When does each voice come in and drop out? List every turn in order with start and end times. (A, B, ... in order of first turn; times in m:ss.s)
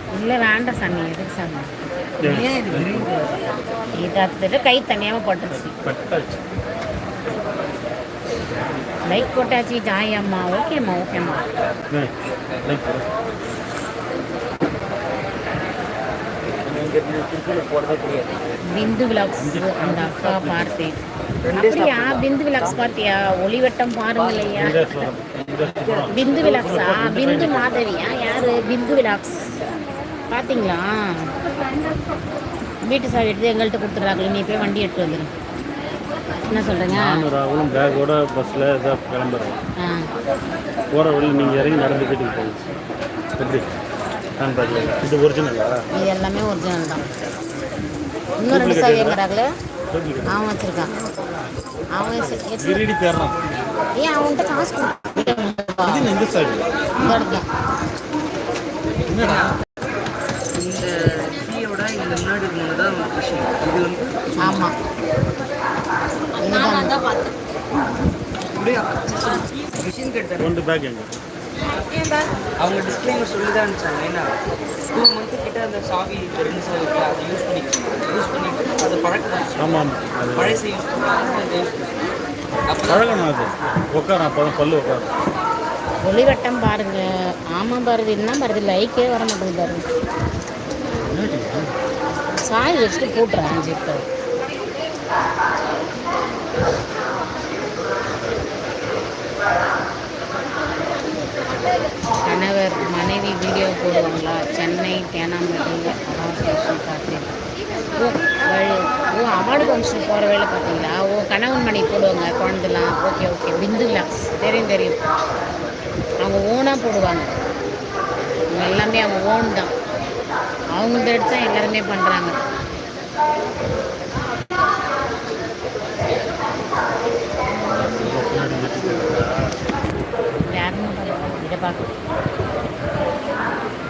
0:00.1-0:01.7 A
0:02.2-0:03.1 B
0:02.2-0:03.4 C
0:03.9-0:05.7 A
0:05.5-0:06.4 B
0:09.1-0:11.4 A
0:11.9-0:13.1 B
0:16.6-0:18.4 C
0:18.7-0:21.0 A
0:19.4-0:20.9 B
0:21.4-0:22.8 C
0:21.5-0:24.8 A
0:24.2-0:26.5 C
0:24.5-0:27.8 B
0:26.1-0:29.5 A
0:30.3-0:31.3 A
0:32.8-0:35.3 A
0:36.5-0:37.2 A
0:36.9-0:39.6 B
0:39.8-0:40.1 A
0:40.9-0:42.6 B
0:43.4-0:43.7 B
0:44.4-0:45.8 B
0:45.9-0:47.1 A
0:48.4-0:49.5 A
0:48.5-0:49.2 B
0:49.9-0:50.4 B
0:50.3-0:50.9 A
0:51.9-0:52.8 A
0:52.2-0:53.4 B
0:54.0-0:56.1 A
0:55.8-0:56.7 B
0:57.0-0:57.4 A
0:59.1-0:59.5 B
0:59.1-0:59.6 C
1:00.5-1:04.7 C
1:04.4-1:04.7 A
1:06.4-1:07.0 A
1:08.5-1:10.5 C
1:10.4-1:11.1 B
1:12.6-1:14.3 C
1:14.9-1:22.1 C
1:19.6-1:20.6 B
1:22.7-1:23.6 C
1:22.8-1:25.1 B
1:26.0-1:29.8 A
1:31.0-1:31.7 B
1:32.4-1:34.0 A
1:42.2-1:47.3 A
1:48.0-1:55.0 A
1:56.2-1:57.3 A
1:58.5-1:59.7 A
2:00.8-2:02.3 A
2:07.7-2:09.6 B
2:10.4-2:11.9 A